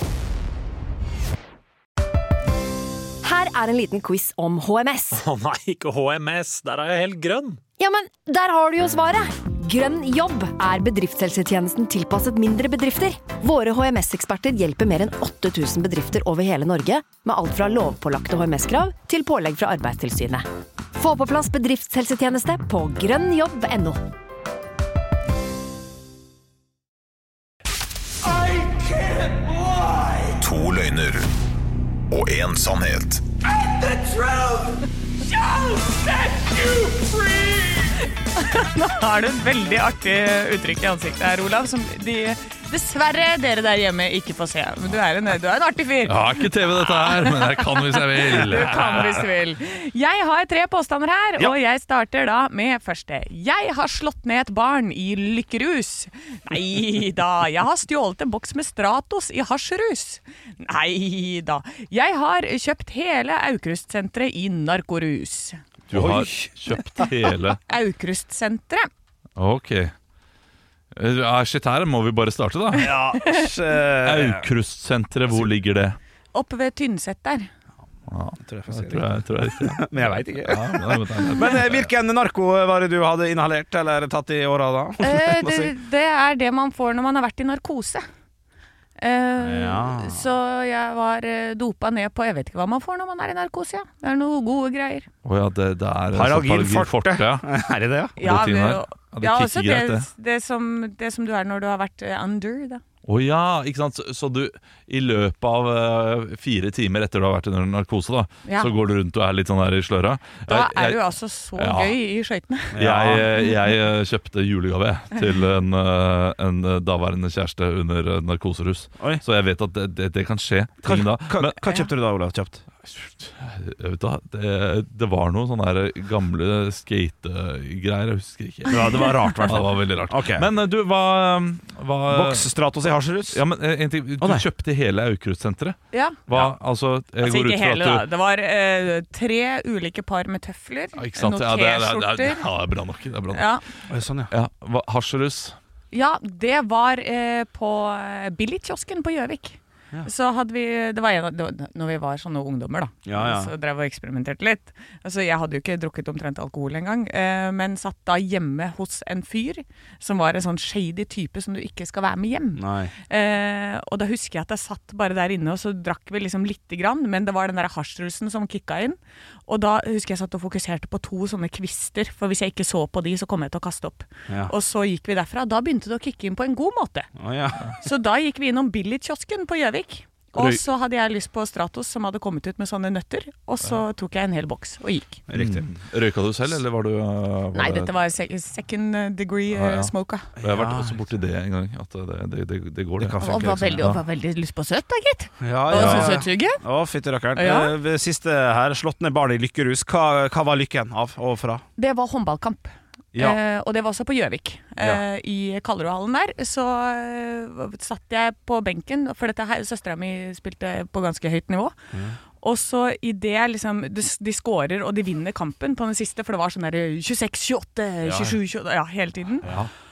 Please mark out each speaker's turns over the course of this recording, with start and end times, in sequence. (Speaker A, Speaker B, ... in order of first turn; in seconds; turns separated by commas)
Speaker A: 3.2-5.2, Speaker B: 5.1-7.6, Speaker A: 7.8-24.0, Speaker C: 28.6-29.2, Speaker D: 30.3-31.3, Speaker D: 32.1-33.2, Speaker E: 35.2-37.1, Speaker E: 37.7-65.6, Speaker F: 46.0-49.2, Speaker F: 65.9-67.6, Speaker C: 65.9-66.5, Speaker E: 67.7-68.9, Speaker F: 69.4-69.9, Speaker F: 70.9-72.9, Speaker C: 72.7-74.5, Speaker E: 72.9-73.5, Speaker F: 74.0-76.0, Speaker E: 76.3-77.5, Speaker F: 78.1-81.9, Speaker C: 78.4-85.7, Speaker E: 85.0-88.0, Speaker E: 89.0-95.1, Speaker C: 89.4-90.3, Speaker F: 95.2-97.5, Speaker C: 96.1-98.2, Speaker F: 98.2-100.1, Speaker E: 98.2-102.8, Speaker F: 103.0-111.0, Speaker E: 108.5-108.7, Speaker E: 110.5-112.8, Speaker F: 111.5-112.0, Speaker C: 112.7-113.3, Speaker F: 112.7-121.6, Speaker C: 120.8-122.6, Speaker F: 122.8-132.5, Speaker C: 128.7-130.5, Speaker C: 132.1-133.4, Speaker F: 133.3-138.1, Speaker C: 134.2-134.4, Speaker E: 135.9-136.2, Speaker E: 137.2-142.4, Speaker F: 140.9-143.5, Speaker E: 143.3-143.6, Speaker C: 143.9-144.3, Speaker F: 144.3-145.6, Speaker E: 145.9-177.1, Speaker C: 153.1-153.5, Speaker C: 162.6-162.9, Speaker C: 177.2-177.6, Speaker E: 177.7-185.2, Speaker F: 180.3-180.6, Speaker C: 185.3-185.6, Speaker F: 185.3-187.9, Speaker E: 187.5-190.3, Speaker F: 189.5-194.0, Speaker C: 190.4-191.0, Speaker C: 193.0-193.9, Speaker E: 193.2-196.6, Speaker C: 195.4-201.6, Speaker F: 195.7-196.2, Speaker E: 197.3-197.7, Speaker E: 201.8-211.8, Speaker C: 203.1-203.4, Speaker E: 212.4-219.5, Speaker F: 218.0-218.4, Speaker C: 219.4-219.7